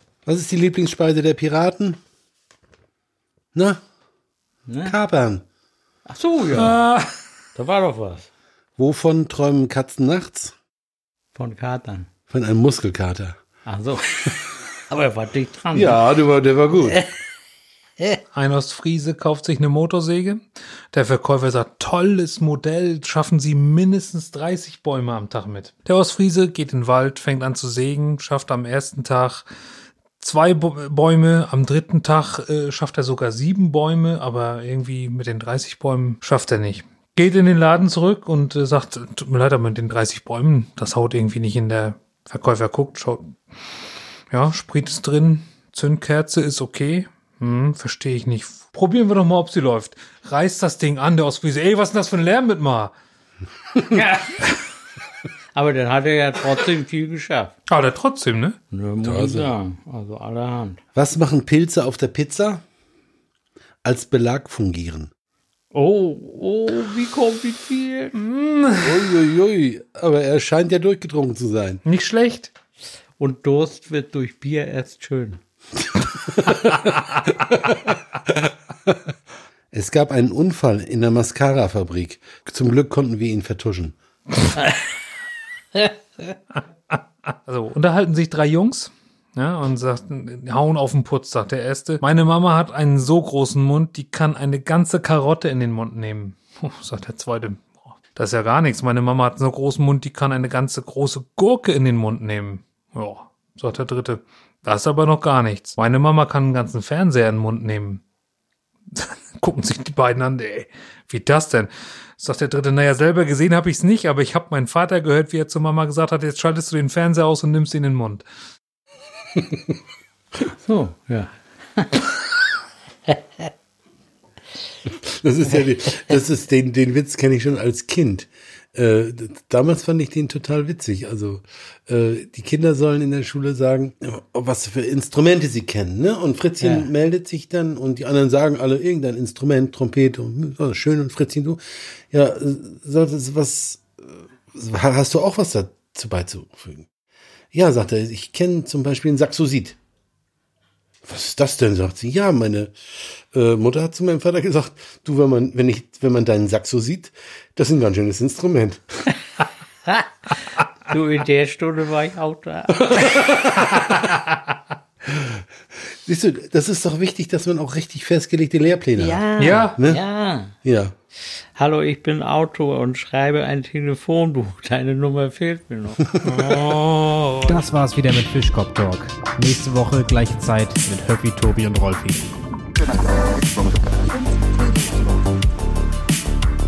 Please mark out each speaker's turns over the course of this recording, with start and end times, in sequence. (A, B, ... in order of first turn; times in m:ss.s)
0:00.3-0:02.0 A
0:03.5-0:03.8 A
0:04.7-0:05.0 B
0:04.8-0:05.4 A
0:06.1-0:06.8 B
0:06.5-0:07.2 C
0:07.6-0:08.3 B
0:08.8-0:10.5 A
0:11.3-0:12.1 B
0:12.3-0:13.4 A
0:13.6-0:16.0 B
0:15.7-0:17.1 A
0:18.3-0:29.5 C
0:30.2-0:43.4 C
0:44.3-0:52.9 C
0:53.9-0:54.5 B
0:55.5-0:57.5 B
0:57.7-0:58.6 C
0:58.7-1:00.8 B
0:59.0-0:59.5 A
1:01.0-1:02.6 A
1:03.8-1:05.1 A
1:05.7-1:08.2 B
1:08.2-1:08.9 C
1:08.8-1:11.8 A
1:11.8-1:12.5 C
1:13.2-1:15.4 B
1:16.5-1:16.9 C
1:19.7-1:24.0 A
1:27.5-1:48.0 C
1:48.9-1:58.2 C
2:00.4-2:02.1 B
2:04.9-2:26.9 A
2:16.6-2:16.9 B
2:27.5-2:29.8 A
2:31.0-2:39.0 A
2:40.9-2:42.9 B
2:42.9-2:43.7 A
2:46.0-2:50.0 A
2:49.0-2:50.6 B
2:49.4-2:49.8 C
2:50.6-2:50.9 A
2:51.5-2:56.0 B
2:56.2-2:57.7 C
2:57.5-3:02.2 D
3:04.1-3:05.0 D